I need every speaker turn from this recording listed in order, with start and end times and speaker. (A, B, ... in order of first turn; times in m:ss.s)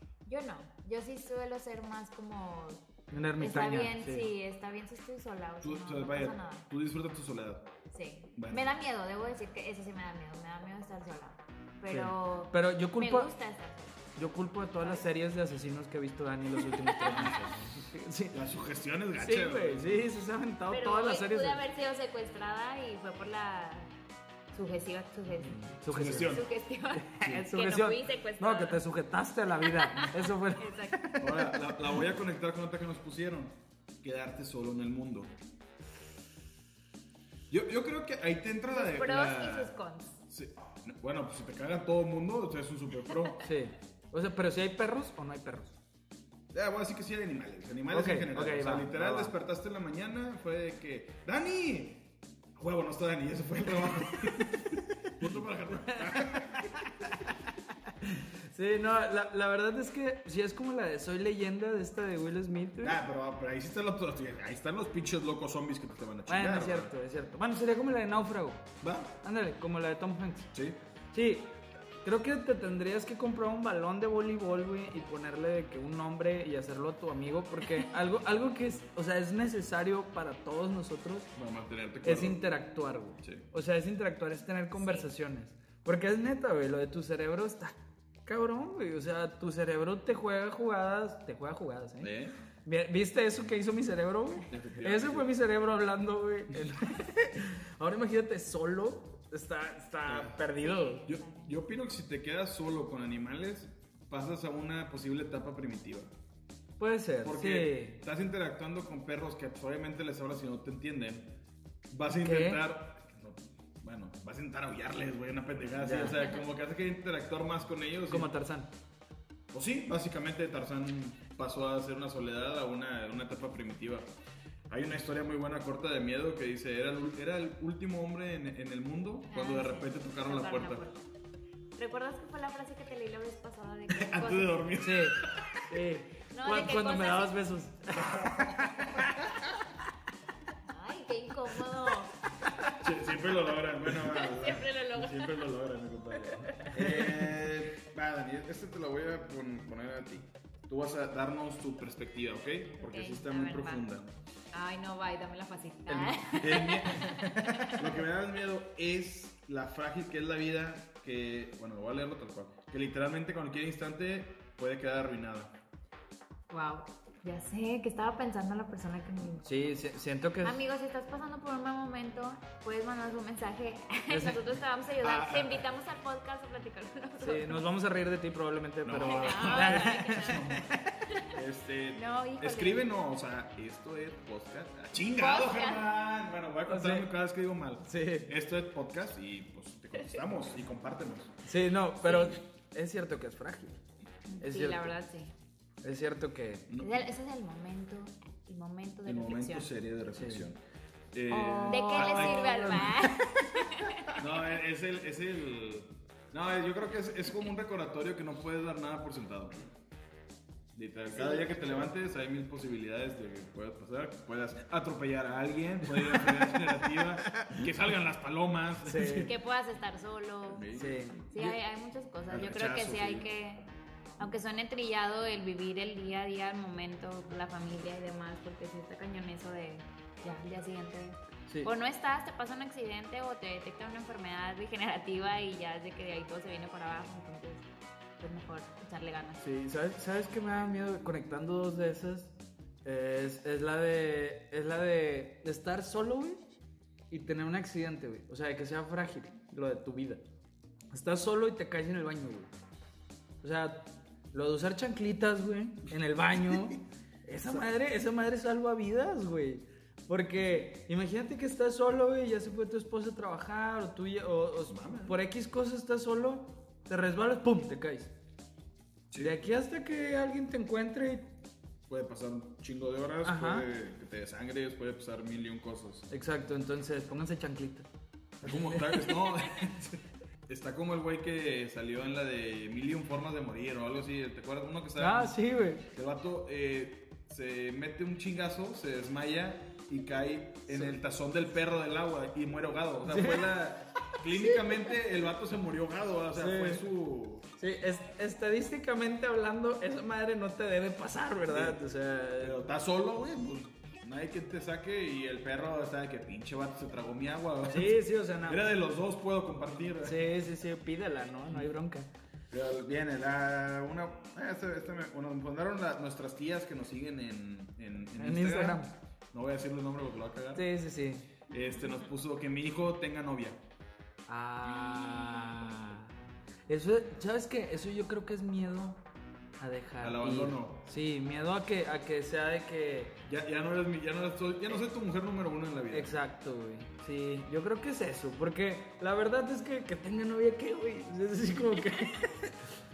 0:00.2-0:02.8 A
0:03.1-0:04.3 B
0:03.4-0:06.6 A
0:05.6-0:07.7 C
0:07.9-0:14.1 A
0:08.4-0:08.7 C
0:11.9-0:13.3 B
0:14.2-0:18.4 B
0:14.8-0:15.1 A
0:16.8-0:17.4 A
0:18.3-0:20.1 C
0:19.2-0:21.6 B
0:20.7-0:23.9 A
0:24.5-0:25.6 A
0:25.4-0:26.4 B
0:25.9-0:26.5 C
0:26.1-0:28.8 A
0:27.0-0:31.2 B
0:29.6-0:31.5 A
0:31.2-0:35.4 C
0:37.5-0:39.7 C
0:38.7-0:40.2 A
0:40.3-0:43.4 C
0:43.4-0:45.8 B
0:46.5-0:56.8 C
0:47.9-0:49.3 B
0:56.0-1:03.0 B
1:02.8-1:06.9 C
1:06.3-1:08.7 B
1:08.8-1:09.1 C
1:09.2-1:10.5 B
1:10.5-1:10.8 C
1:11.1-1:21.3 B
1:21.4-1:22.4 C
1:22.0-1:41.0 B
1:24.8-1:25.1 A
1:32.0-1:32.4 C
1:34.5-1:35.3 C
1:40.1-1:40.4 C
1:40.6-1:41.5 A
1:41.0-1:46.1 C
1:46.8-1:48.0 B
1:47.2-1:51.3 C
1:51.9-1:58.3 C
1:52.2-1:52.6 B
1:55.8-1:56.2 B
1:58.1-1:58.7 B
1:59.5-2:04.1 C
2:04.7-2:10.9 C
2:09.3-2:11.1 A
2:11.8-2:14.7 A
2:13.9-2:15.5 C
2:14.8-2:19.1 B
2:16.3-2:17.4 A
2:17.9-2:19.4 C
2:20.6-2:22.1 A
2:22.8-2:34.1 C
2:24.0-2:25.4 A
2:26.3-2:27.2 A
2:32.8-2:33.9 A
2:34.5-2:37.9 A
2:35.9-2:45.6 C
2:37.2-2:37.7 B
2:46.5-2:49.4 A
2:49.4-2:50.6 B
2:50.4-2:57.7 A
2:54.1-2:54.4 B
2:55.0-2:55.7 C
2:57.2-3:00.6 B
2:58.8-3:11.3 C
2:59.0-3:01.4 A
3:02.0-3:02.9 A
3:05.2-3:05.8 A
3:06.7-3:07.1 B
3:07.8-3:08.3 B
3:11.4-3:13.8 B
3:12.1-3:12.4 A
3:14.3-3:15.3 A
3:14.4-3:14.9 B
3:15.8-3:16.7 B
3:16.7-3:17.0 C
3:16.8-3:19.7 A
3:19.0-3:20.6 C
3:20.2-3:20.5 B
3:21.1-3:23.0 C
3:21.3-3:23.4 B
3:21.6-3:24.1 A
3:24.2-3:29.6 C
3:30.7-3:39.3 C
3:31.2-3:31.7 A
3:36.1-3:36.4 B
3:37.3-3:37.6 B
3:38.8-3:39.3 B
3:39.2-3:40.8 A
3:40.5-3:41.0 C
3:40.8-3:41.6 B
3:41.3-3:43.7 A
3:42.3-3:43.3 C
3:44.2-3:57.7 A
3:58.2-3:59.4 A
3:59.4-4:02.3 B
4:02.8-4:06.4 B
4:07.1-4:10.2 B
4:10.9-4:12.5 B
4:13.4-4:28.1 B
4:24.7-4:25.2 C
4:29.1-4:29.4 C
4:29.2-4:31.3 B
4:31.9-4:36.1 C
4:33.2-4:33.7 B
4:36.1-4:37.9 B
4:38.4-4:45.4 C
4:38.4-4:39.3 B
4:45.0-4:45.8 B
4:45.9-4:57.5 C
4:50.7-4:51.0 B
4:53.1-4:53.5 B
4:56.4-4:56.8 B
4:57.6-5:02.6 B
5:01.5-5:01.8 C
5:02.4-5:10.3 C
5:07.7-5:08.6 B
5:10.0-5:12.1 B
5:12.5-5:20.7 C
5:18.2-5:18.9 B
5:20.6-5:21.3 B
5:21.5-5:23.6 C
5:24.3-5:26.1 B
5:24.8-5:25.7 A
5:26.7-5:29.0 B
5:29.6-5:33.2 B
5:30.0-5:30.8 C
5:33.2-5:36.2 C
5:35.9-5:42.6 B